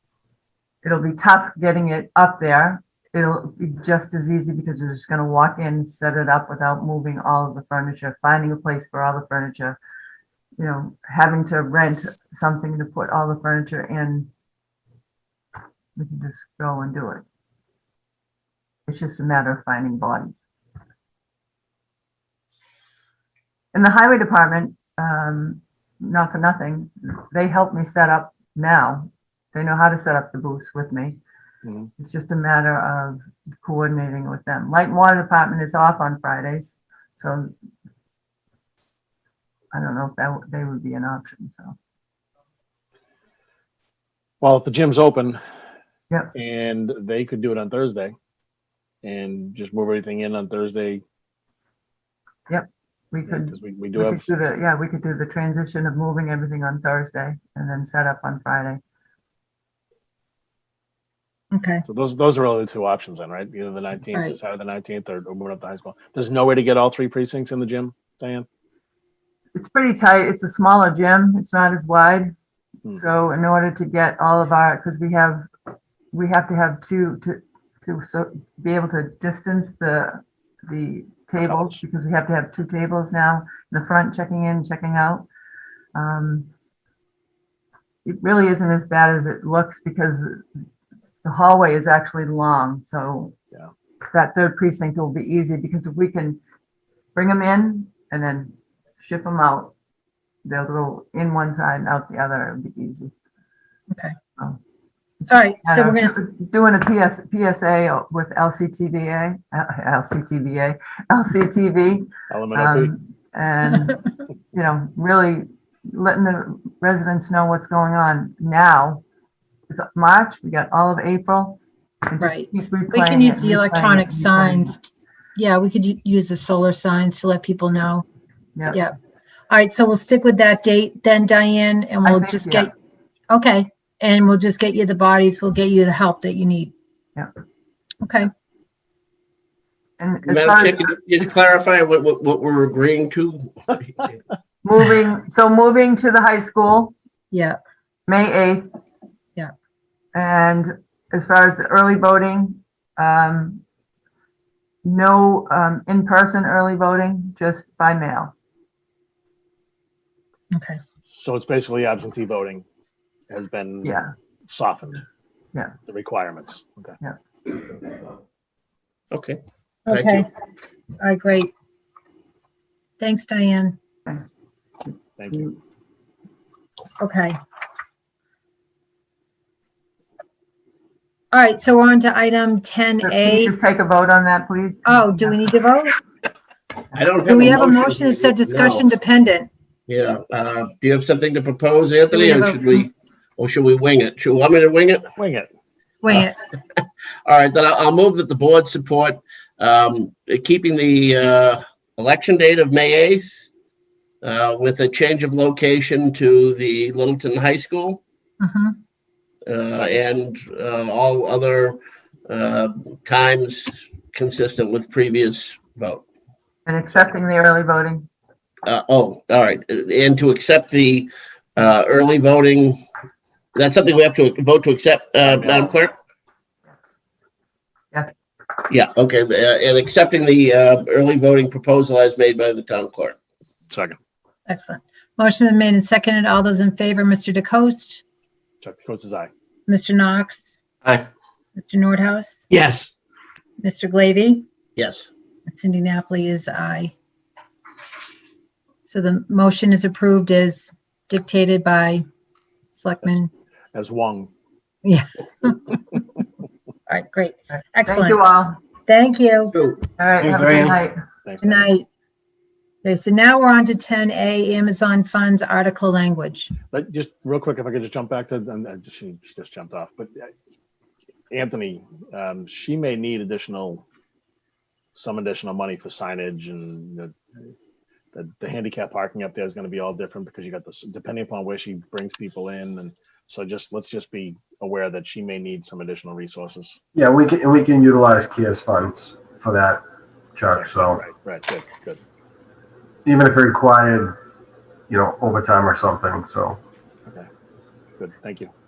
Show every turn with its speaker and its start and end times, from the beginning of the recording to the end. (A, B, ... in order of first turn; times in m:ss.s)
0:00.8-0:09.8 A
0:10.6-0:14.3 A
0:16.0-0:17.2 A
0:18.9-0:20.5 A
0:23.7-0:31.2 A
0:32.0-0:37.5 A
0:39.7-0:41.8 A
0:44.4-0:45.4 B
0:46.4-0:48.1 B
0:49.0-0:51.0 B
0:52.5-0:58.8 A
0:53.3-0:54.3 B
1:01.5-1:01.8 C
1:01.9-1:08.5 B
1:04.1-1:04.4 C
1:09.6-1:12.3 A
1:13.0-1:15.5 A
1:16.1-1:25.3 A
1:21.4-1:21.8 B
1:26.0-1:26.5 A
1:28.0-1:30.4 A
1:31.2-1:33.4 A
1:34.1-1:36.4 A
1:37.2-1:39.7 A
1:40.4-1:43.1 A
1:45.2-1:59.0 A
1:45.3-1:46.2 C
1:52.3-1:52.9 B
1:59.7-2:04.8 A
2:02.2-2:08.0 C
2:08.6-2:08.8 A
2:08.7-2:09.0 C
2:09.5-2:12.7 C
2:12.0-2:12.7 A
2:13.3-2:16.7 C
2:18.0-2:18.3 C
2:20.0-2:20.9 A
2:20.3-2:24.1 D
2:24.6-2:26.9 A
2:27.3-2:27.6 C
2:28.1-2:28.7 A
2:30.1-2:33.6 A
2:34.8-2:38.3 A
2:40.5-2:40.8 C
2:41.1-2:42.6 B
2:43.3-2:45.0 B
2:43.8-2:44.1 A
2:45.9-2:46.9 B
2:49.1-2:50.2 D
2:49.9-2:50.3 C
2:51.0-2:51.5 C
2:53.0-2:53.8 C
2:55.2-2:55.5 B
2:57.0-2:57.4 C
3:01.3-3:03.6 C
3:03.0-3:05.5 A
3:04.8-3:06.0 C
3:06.9-3:08.9 D
3:07.2-3:09.5 C
3:09.9-3:15.1 D
3:12.1-3:12.8 C
3:15.2-3:15.5 B
3:16.0-3:16.4 C
3:17.3-3:23.4 D
3:24.2-3:28.0 D
3:28.4-3:28.8 C
3:29.5-3:36.0 D
3:36.7-3:38.1 A
3:38.6-3:42.8 D
3:43.6-3:45.9 D
3:45.3-3:45.7 B
3:48.7-3:53.2 D
3:53.7-3:54.0 B
3:54.5-3:58.0 C
3:58.6-3:59.3 B
3:59.7-4:00.6 C
4:01.6-4:02.4 C
4:03.6-4:04.5 C
4:04.8-4:05.1 D
4:05.5-4:06.9 C
4:08.8-4:12.1 C
4:12.7-4:13.3 C
4:13.7-4:14.3 B
4:14.8-4:15.7 C
4:16.9-4:18.2 C
4:17.9-4:18.6 A
4:18.9-4:19.8 C
4:20.0-4:21.0 A
4:21.2-4:21.7 B
4:21.4-4:21.8 C
4:22.8-4:26.5 C
4:26.7-4:30.3 B
4:31.3-4:33.8 B
4:34.9-4:37.1 B
4:38.1-4:46.8 B
4:46.9-4:49.8 E
4:50.4-4:51.0 E
4:50.6-4:52.0 B
4:53.0-4:54.2 E
4:54.9-4:56.6 E
4:58.0-4:58.5 B